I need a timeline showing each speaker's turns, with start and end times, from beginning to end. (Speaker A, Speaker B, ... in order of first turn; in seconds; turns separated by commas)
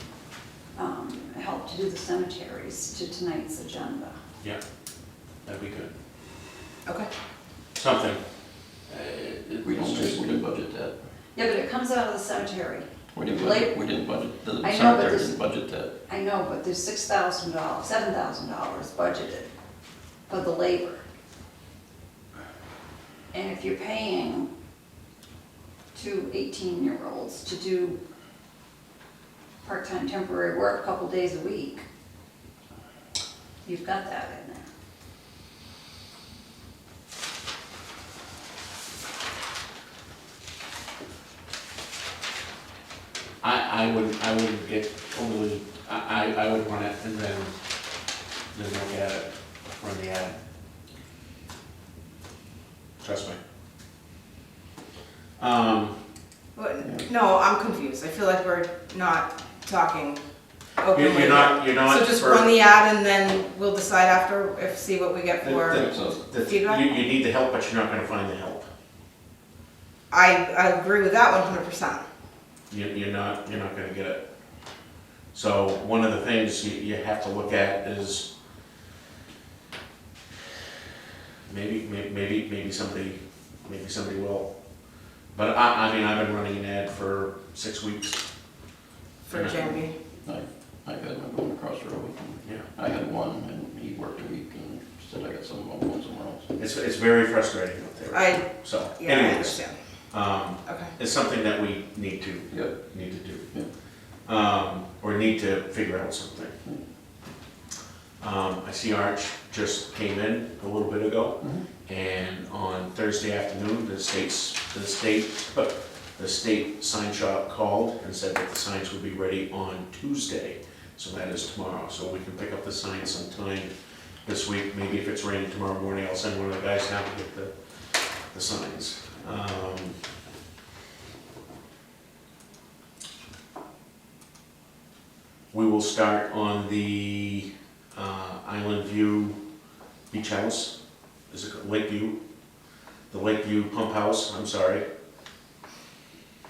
Speaker A: 0.7-4.2, Speaker B: 5.4-5.9, Speaker B: 7.7-8.2, Speaker B: 8.8-10.3, Speaker C: 9.6-11.0, Speaker A: 11.3-13.7, Speaker C: 13.1-15.9, Speaker A: 14.6-15.3, Speaker A: 16.1-19.5, Speaker A: 20.3-21.0, Speaker A: 23.3-24.5, Speaker A: 25.9-28.0, Speaker A: 29.6-31.8, Speaker A: 33.6-34.7, Speaker B: 43.4-47.5, Speaker B: 48.5-50.4, Speaker B: 53.0-53.4, Speaker B: 55.4-56.0, Speaker D: 56.5-60.2, Speaker D: 60.8-66.8, Speaker B: 60.9-62.6, Speaker B: 65.4-68.7, Speaker C: 65.7-66.2, Speaker D: 70.1-72.0, Speaker B: 72.7-74.2, Speaker B: 75.3-78.3, Speaker B: 81.5-84.5, Speaker B: 85.3-88.2, Speaker D: 89.2-89.9, Speaker B: 89.3-89.8, Speaker C: 90.2-96.5, Speaker B: 96.6-103.5, Speaker D: 98.1-99.8, Speaker D: 100.6-100.9, Speaker C: 102.5-102.7, Speaker B: 104.2-106.5, Speaker B: 108.2-123.7, Speaker C: 111.4-111.7, Speaker B: 124.2-130.0, Speaker B: 135.5-139.4, Speaker B: 140.1-140.7, Speaker B: 141.3-142.2, Speaker B: 143.1-144.8